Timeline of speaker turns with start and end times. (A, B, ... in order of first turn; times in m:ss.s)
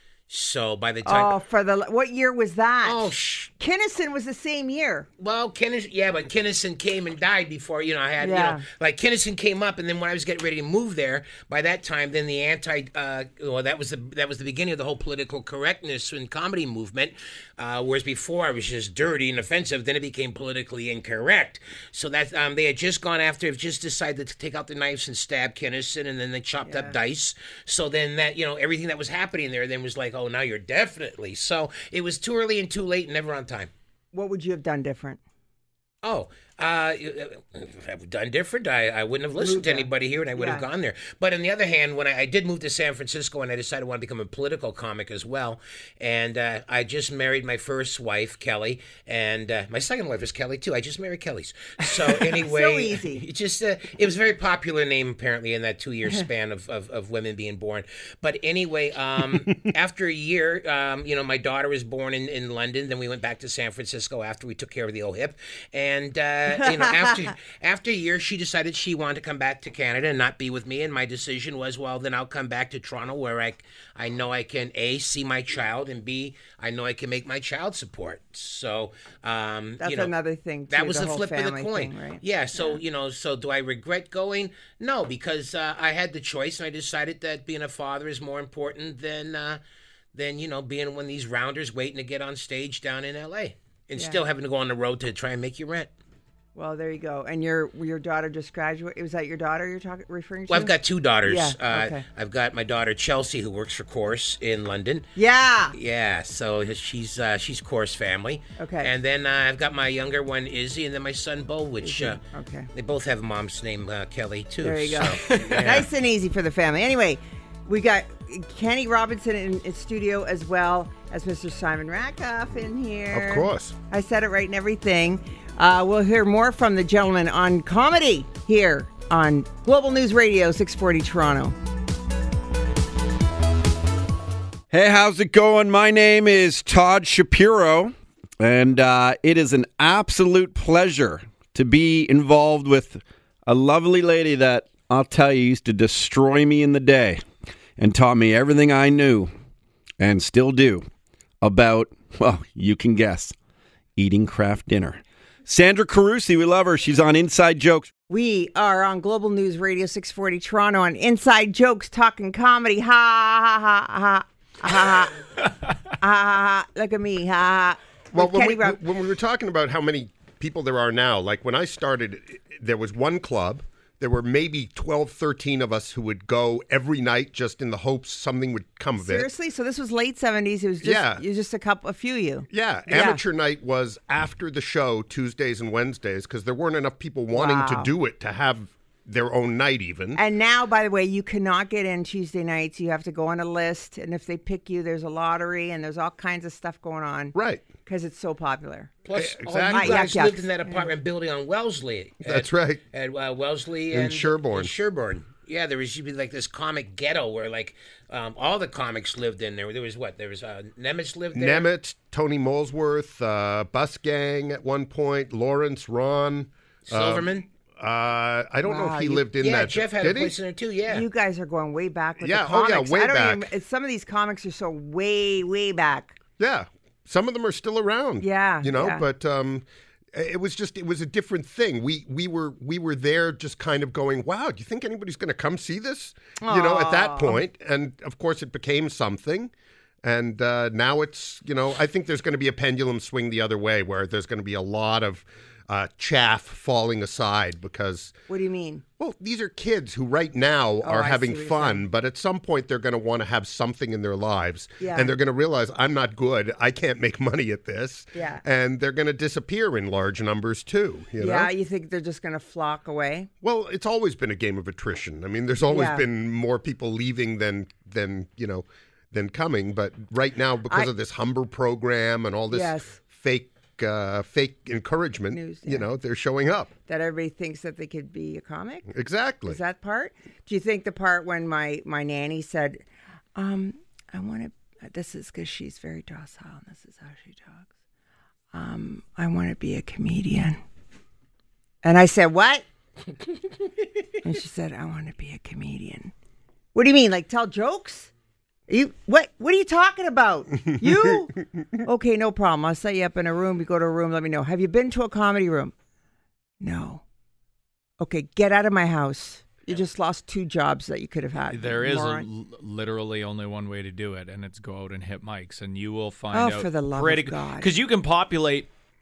0:00.3-0:01.3 A
0:01.0-0:05.1 B
0:02.8-0:03.5 A
0:05.2-0:33.7 A
0:08.2-0:08.6 B
0:26.6-0:27.0 B
0:34.1-0:35.2 B
0:36.0-1:20.1 A
0:39.4-0:40.6 B
0:52.4-0:53.2 B
1:06.6-1:06.9 B
1:19.8-1:22.8 B
1:20.7-1:29.6 A
1:30.1-1:35.9 A
1:36.6-1:42.0 B
1:40.5-1:45.1 A
1:45.2-1:45.8 B
1:45.7-1:52.2 A
1:48.6-1:48.9 B
1:51.8-1:52.7 B
1:52.7-1:55.9 A
1:54.6-2:11.6 B
1:55.2-1:55.8 C
2:03.1-2:03.8 D
2:14.7-2:27.2 E
2:27.8-2:29.3 E
2:30.0-2:30.9 E
2:31.4-2:33.3 E
2:34.0-2:37.9 E
2:38.1-2:45.2 B
2:46.0-2:48.8 B
2:48.1-2:59.3 D
2:59.0-3:03.2 B
3:00.8-3:01.2 D
3:02.5-3:10.2 D
3:07.3-3:07.9 B
3:10.2-3:17.4 B
3:17.3-3:17.6 D
3:17.9-3:18.9 B
3:19.0-3:31.7 A
3:19.2-3:20.1 D
3:19.7-3:20.9 B
3:22.2-3:22.8 D
3:23.9-3:24.7 D
3:31.3-3:40.3 D
3:36.9-3:37.5 A
3:38.6-3:39.3 B
3:39.4-3:41.1 A
3:40.9-3:46.2 B
3:42.2-3:43.5 D
3:46.4-3:59.5 D
3:48.2-3:49.0 B
3:56.4-3:57.4 B
4:00.0-4:08.2 D
4:08.3-4:08.8 B
4:09.0-4:21.5 D
4:10.8-4:11.8 B
4:14.8-4:15.2 B
4:18.1-4:18.4 B
4:21.2-4:23.3 B
4:23.4-4:36.7 D
4:25.7-4:26.0 B
4:32.5-4:33.0 B
4:35.3-4:35.9 B
4:36.9-4:38.9 B
4:38.9-4:39.6 D
4:39.5-4:42.8 B
4:43.4-4:47.7 B
4:48.5-4:50.6 B
4:51.8-4:52.6 B
4:54.2-4:56.1 B
4:56.8-4:58.1 B
4:58.7-5:05.7 B
5:06.6-5:07.0 B
5:08.0-5:12.3 B
5:11.5-5:18.7 C
5:16.3-5:17.7 B